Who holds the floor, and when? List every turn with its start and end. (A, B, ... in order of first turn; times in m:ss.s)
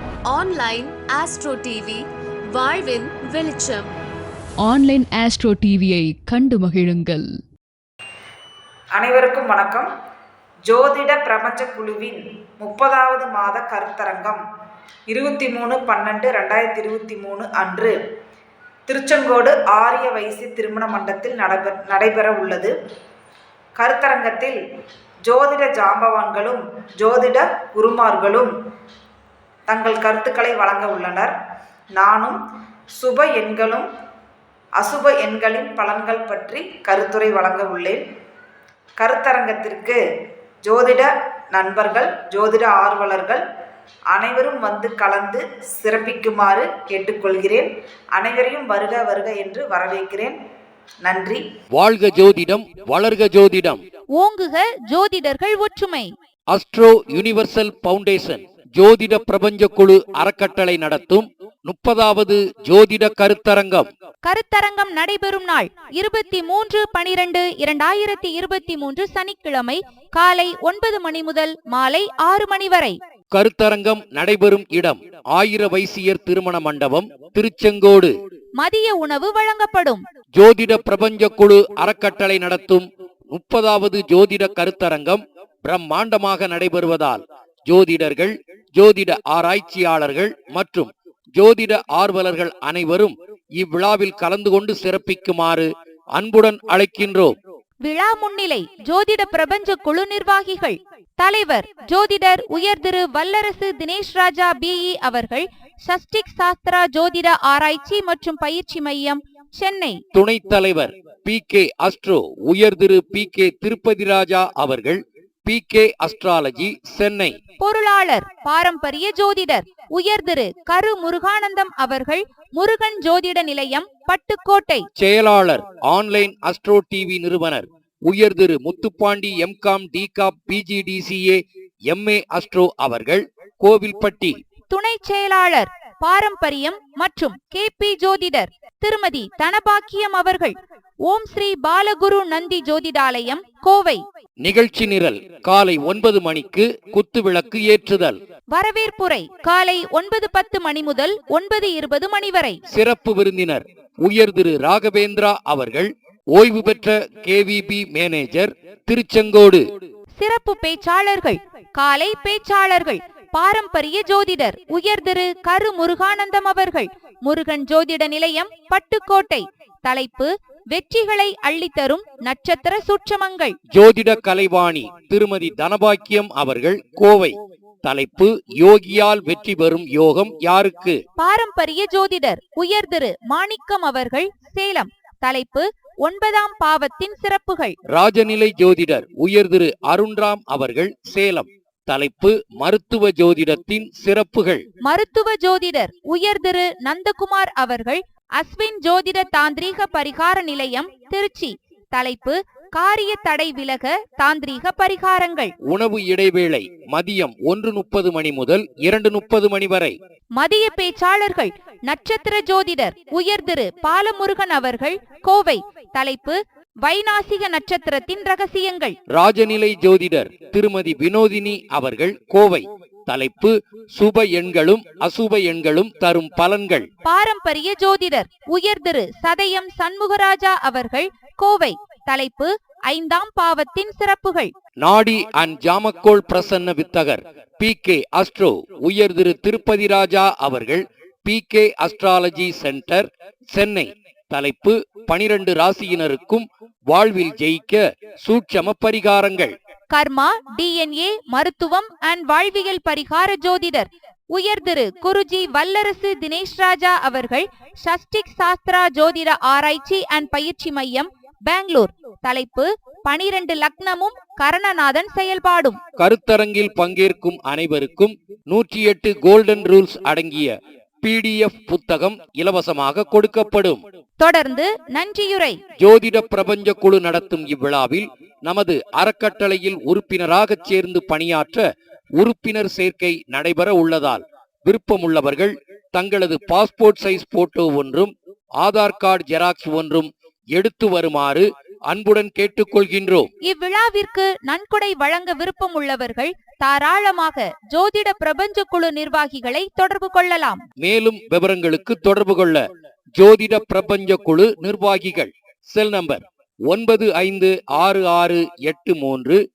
0:00.3-0:03.9 A
0:04.6-0:07.3 B
0:09.0-0:09.9 C
0:10.7-0:14.4 C
0:15.1-0:18.0 C
0:18.9-0:22.8 C
0:23.8-0:24.6 C
0:25.2-0:28.5 C
0:29.7-0:31.3 C
0:32.0-0:32.4 C
0:33.0-0:33.9 C
0:34.8-0:38.0 C
0:39.0-0:40.0 C
0:40.6-0:43.4 C
0:44.1-0:50.4 C
0:51.0-0:51.4 C
0:51.7-0:53.8 D
0:54.2-0:56.1 E
0:56.5-1:03.9 D
1:04.2-1:13.0 E
1:13.3-1:18.1 D
1:18.6-1:20.0 E
1:20.4-1:37.4 D
1:37.8-1:50.0 E
1:50.1-1:57.4 D
1:57.6-2:04.9 E
2:05.0-2:14.4 D
2:14.7-2:24.0 E
2:24.4-2:28.2 D
2:28.5-2:32.6 E
2:32.7-2:39.6 D
2:40.2-2:53.6 E
2:53.7-3:01.0 D
3:01.2-3:07.8 E
3:07.9-3:14.6 D
3:14.8-3:25.5 E
3:25.7-3:30.0 D
3:30.4-3:39.0 E
3:39.1-3:46.9 D
3:47.0-3:54.5 E
3:54.8-4:09.6 D
4:09.9-4:25.8 E
4:26.0-4:33.8 D
4:34.2-4:35.6 E
4:35.8-4:41.6 D
4:42.2-4:53.3 D
4:53.4-5:00.6 E
5:00.8-5:02.6 D
5:03.2-5:09.4 D